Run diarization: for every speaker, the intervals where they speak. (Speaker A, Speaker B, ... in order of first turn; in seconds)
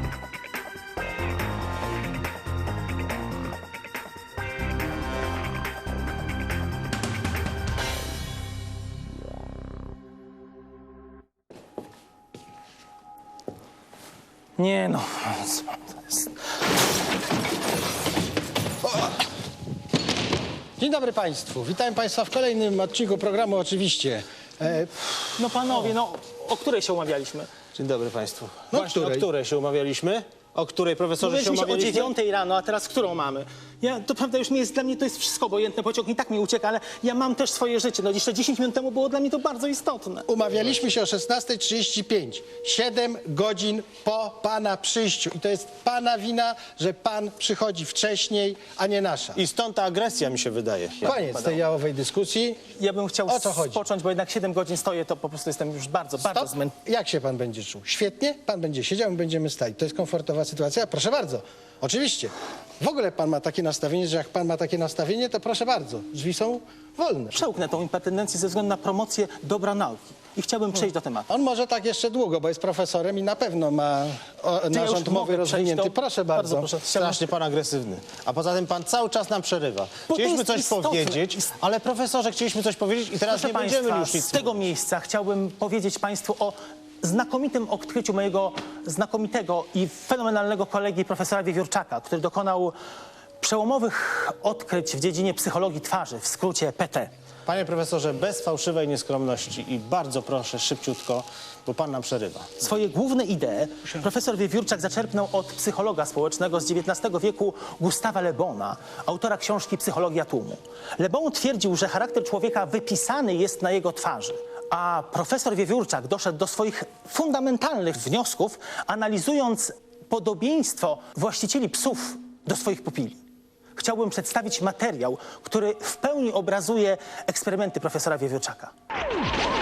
Speaker A: 14.6-16.2, 25.4-27.5, 31.2-40.3, 52.7-56.7, 67.3-71.3, 74.7-77.2, 80.1-81.3, 83.2-92.8, 93.4-97.1, 102.6-123.2, 123.8-128.7
Speaker B: 20.8-25.4, 28.7-29.3, 40.3-49.4, 51.0-52.6, 53.3-53.8, 56.2-67.5, 71.3-76.7
Speaker C: 27.7-32.1, 49.3-51.2, 76.8-84.6, 97.5-102.6